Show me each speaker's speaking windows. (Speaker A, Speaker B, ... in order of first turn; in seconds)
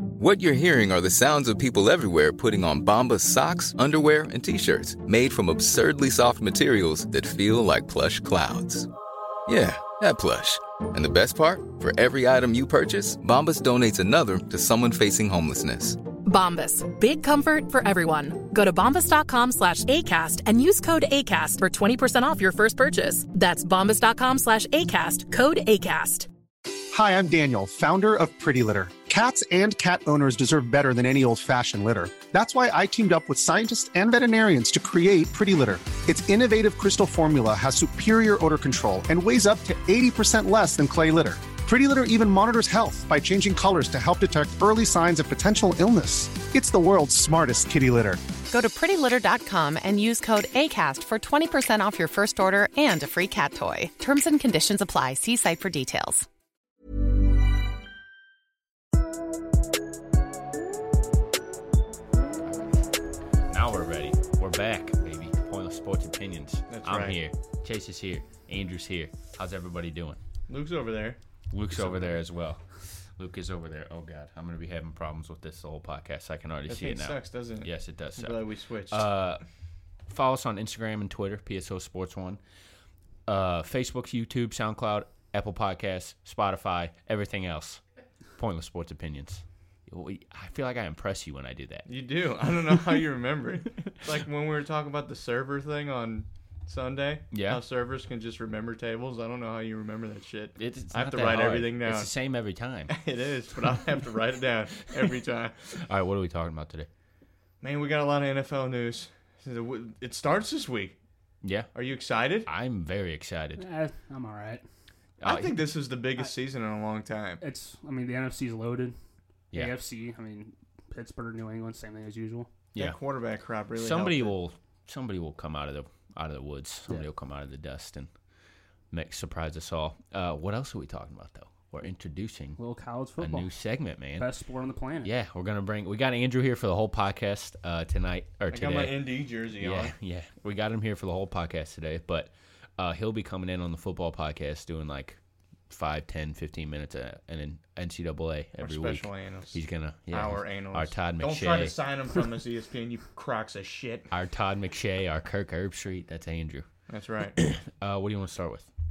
Speaker A: 0.2-8.9, 9.5-16.0
Speaker B: 16.2-26.3
Speaker C: 26.9-48.2
Speaker D: 48.5-56.2
Speaker E: 62.4-62.8, 63.5-70.2, 71.5-79.4, 80.1-82.4, 83.3-87.8, 88.4-91.9, 97.3-97.6, 100.6-102.9, 105.7-106.9, 111.4-111.7, 112.5-113.7, 115.2-115.7, 123.8-128.1, 128.9-132.6, 133.2-134.3, 135.0-145.2, 145.7-151.8, 154.1-156.7, 157.4-158.7
Speaker F: 66.7-67.2, 70.5-71.2, 71.7-72.2, 76.7-79.1, 91.9-102.1, 102.9-105.7, 107.6-111.0, 111.8-112.5, 115.2-117.4, 122.8-124.3, 138.5-139.9, 148.6-154.1, 156.9-157.4
Speaker G: 113.6-114.6, 117.4-119.0, 119.5-122.5, 132.6-133.5, 134.2-135.1